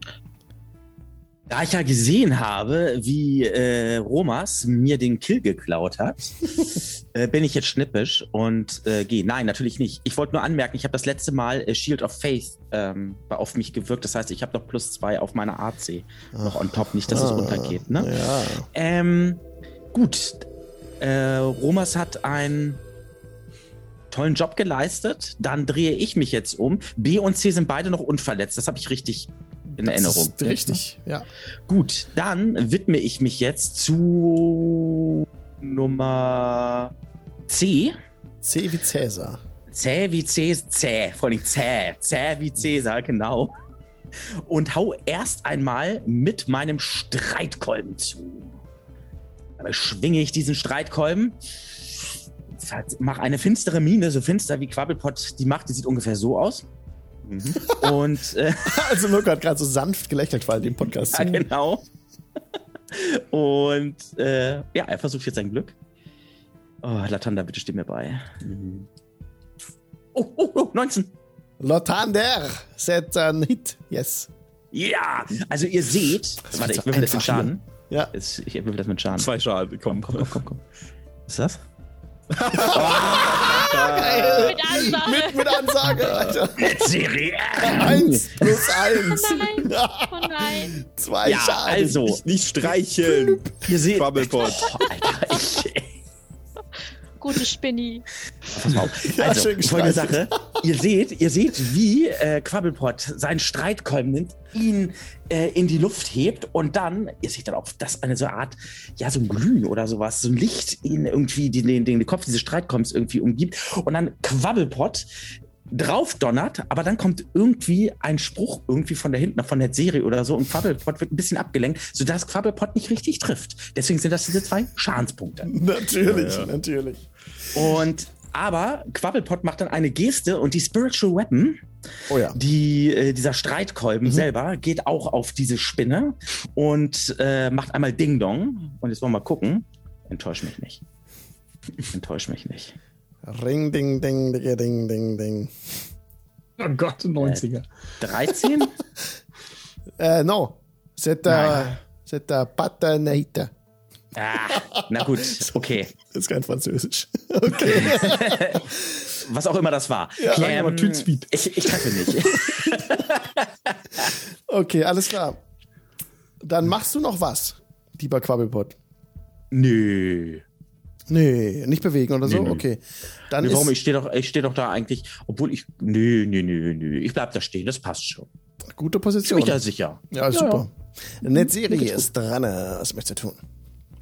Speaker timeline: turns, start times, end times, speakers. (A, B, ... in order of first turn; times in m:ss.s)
0:01.5-0:18.1 A
0:16.3-0:18.7 B
0:18.7-0:19.4 A
0:19.9-0:20.4 A
0:21.0-0:22.8 A
0:24.1-0:30.8 A
0:29.7-0:31.2 B
0:31.7-0:36.9 A
0:37.5-0:38.0 A
0:38.4-0:39.4 B
0:39.7-0:43.5 A
0:44.3-0:48.5 A
0:49.6-0:51.4 A
0:52.6-0:56.6 A
0:57.3-0:57.6 C
0:57.6-0:58.9 A
0:58.7-1:01.4 B
1:01.1-1:01.8 A
1:02.9-1:05.7 A
1:06.8-1:08.3 A
1:08.4-1:08.9 C
1:10.1-1:11.1 A
1:11.6-1:14.3 B
1:14.7-1:19.3 A
1:16.5-1:18.1 B
1:19.1-1:20.4 C
1:19.9-1:20.6 A
1:21.3-1:21.6 A
1:22.3-1:24.7 C
1:22.5-1:26.9 B
1:22.5-1:24.0 A
1:24.1-1:25.8 D
1:26.0-1:26.4 C
1:26.5-1:28.6 A
1:27.6-1:32.1 B
1:28.9-1:30.8 D
1:31.2-1:32.2 A
1:32.0-1:34.8 C
1:33.1-1:33.4 B
1:33.6-1:35.9 A
1:37.2-1:38.0 D
1:38.5-1:55.1 A
1:39.0-1:40.6 B
1:55.7-2:05.5 A
2:05.4-2:07.0 B
2:06.0-2:06.5 C
2:07.5-2:11.6 A
2:12.1-2:12.4 B
2:12.3-2:20.8 A
2:21.9-2:22.7 A
2:23.2-2:25.5 B
2:26.6-2:27.7 E
2:28.0-2:28.7 A
2:30.0-2:33.5 B
2:31.3-2:31.7 A
2:34.1-2:35.9 A
2:34.5-2:35.2 B
2:36.0-2:38.6 B
2:37.6-2:44.1 A
2:40.2-2:40.5 B
2:40.3-2:41.9 E
2:42.4-2:42.9 B
2:44.5-2:45.4 B
2:46.4-2:48.7 B
2:49.5-2:50.4 A
2:51.1-2:53.7 B
2:52.3-2:52.6 A
2:53.4-2:58.3 A
2:58.7-3:03.4 B
2:59.2-3:00.6 A